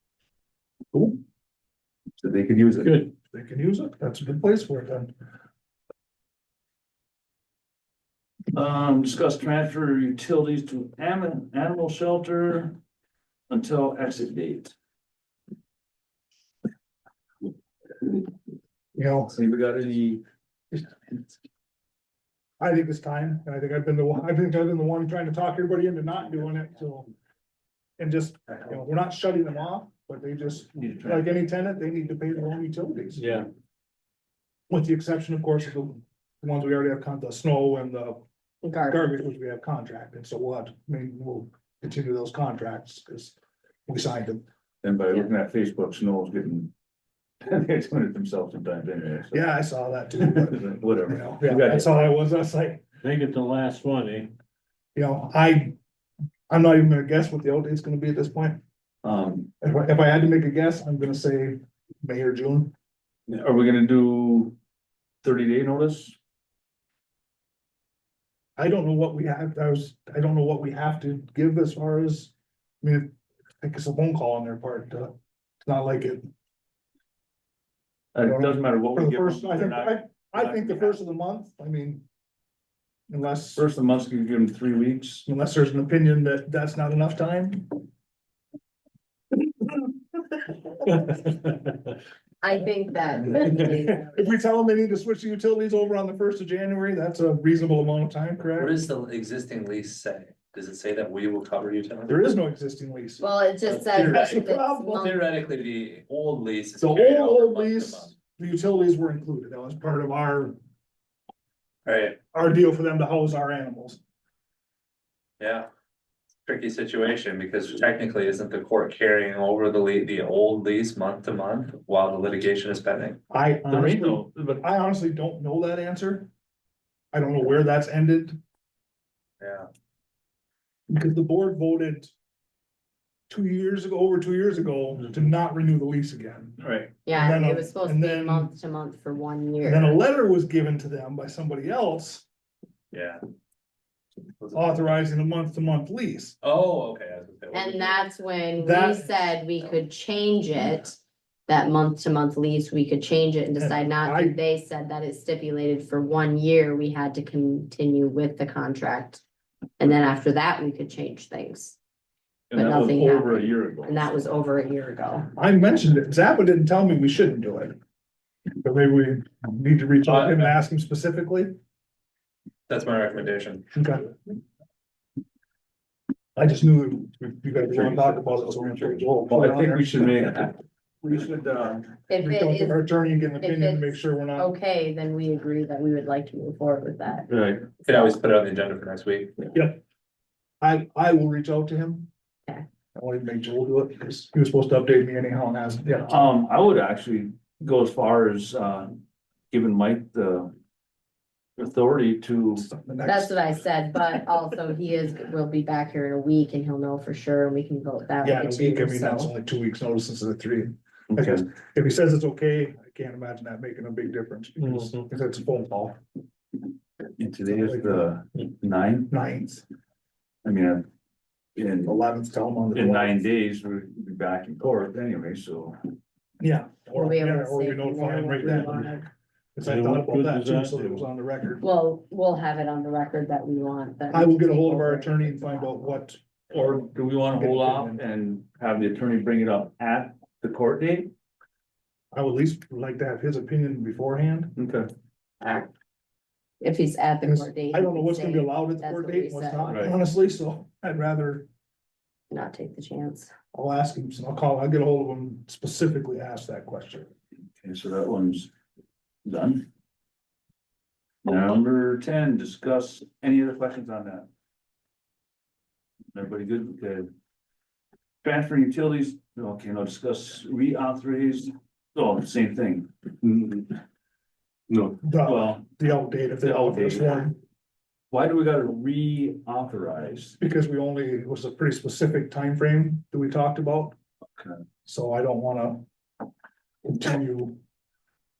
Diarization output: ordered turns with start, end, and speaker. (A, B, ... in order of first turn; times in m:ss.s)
0:02.2-0:02.8 A
0:02.8-0:03.1 B
0:03.3-0:05.1 C
0:08.5-0:12.8 A
0:13.5-0:14.7 A
0:18.9-0:19.3 C
0:19.3-0:21.3 A
0:22.6-0:27.1 C
0:28.0-0:33.2 C
0:30.8-0:31.2 A
0:33.2-0:33.5 A
0:34.7-0:38.2 C
0:38.6-0:39.0 D
0:38.9-0:44.4 C
0:44.8-0:46.7 A
0:47.4-0:49.4 A
0:49.3-0:52.8 C
0:50.3-0:51.9 A
0:53.0-0:54.3 B
0:54.9-0:55.7 C
0:56.5-0:58.6 C
0:59.0-0:59.5 A
0:59.6-1:02.7 C
1:03.3-1:04.5 A
1:05.2-1:06.2 A
1:08.6-1:16.3 C
1:18.1-1:21.0 A
1:18.2-1:22.0 C
1:23.1-1:23.6 C
1:23.6-1:25.2 A
1:25.2-1:27.8 C
1:32.4-1:34.3 D
1:34.0-1:38.8 C
1:38.6-1:42.2 E
1:42.1-1:45.1 C
1:43.2-1:45.2 D
1:43.6-1:44.4 E
1:45.0-1:48.2 E
1:46.8-1:50.6 C
1:51.8-1:52.2 E
1:52.3-1:54.0 C
1:55.4-1:55.7 E
1:56.4-2:03.2 E
2:03.3-2:06.3 C
2:03.7-2:04.6 A
2:07.1-2:08.4 C
2:09.4-2:09.7 E
2:10.9-2:12.1 C
2:13.3-2:18.5 C
2:16.6-2:16.9 A
2:17.0-2:20.0 D
2:19.6-2:22.2 C
2:22.9-2:23.2 E
2:24.4-2:24.7 E
2:24.5-2:26.4 C
2:26.4-2:28.0 E
2:27.5-2:39.2 D
2:28.6-2:29.4 C
2:33.6-2:34.4 C
2:39.8-2:41.8 D
2:42.5-2:43.9 A
2:42.5-2:45.3 D
2:45.4-2:47.8 C
2:48.6-2:51.5 C
2:50.0-2:50.5 E
2:52.7-2:53.8 E
2:53.7-2:54.1 C
2:56.4-3:00.0 C
2:57.7-2:58.1 A
2:59.2-3:00.6 A
3:01.0-3:04.5 C
3:01.2-3:01.5 A
3:02.1-3:07.3 D
3:07.3-3:07.7 A
3:07.8-3:09.5 E
3:09.5-3:09.8 C
3:10.6-3:12.1 C
3:12.9-3:16.3 C
3:16.1-3:20.5 A
3:21.6-3:22.6 A
3:22.6-3:23.3 C
3:23.0-3:29.3 D
3:28.2-3:36.0 C
3:31.1-3:31.4 A
3:37.2-3:39.1 A
3:37.5-3:38.1 C
3:39.1-3:39.6 C
3:40.4-3:40.9 A
3:41.6-3:41.9 A
3:41.8-3:43.2 C
3:42.7-3:45.8 A
3:46.4-3:51.6 C
3:46.9-3:49.0 D
3:49.6-3:51.0 B
3:51.6-3:56.0 D
3:54.1-3:58.0 C
3:56.5-4:01.1 A
4:02.1-4:04.6 C
4:04.6-4:04.9 A
4:05.4-4:05.7 D
4:06.6-4:09.9 D
4:07.2-4:11.5 C
4:09.7-4:09.9 A
4:12.3-4:13.3 D
4:13.5-4:17.1 C
4:17.6-4:18.5 A
4:19.2-4:19.7 A
4:21.2-4:24.3 A
4:26.1-4:27.1 A
4:28.2-4:32.9 A
4:33.2-4:33.5 B
4:35.0-4:37.4 C
4:35.2-4:35.6 A
4:36.4-4:37.2 A
4:38.1-4:40.4 A
4:40.4-4:44.0 C
4:44.4-4:44.6 A
4:44.8-4:45.8 C
4:46.8-4:47.6 C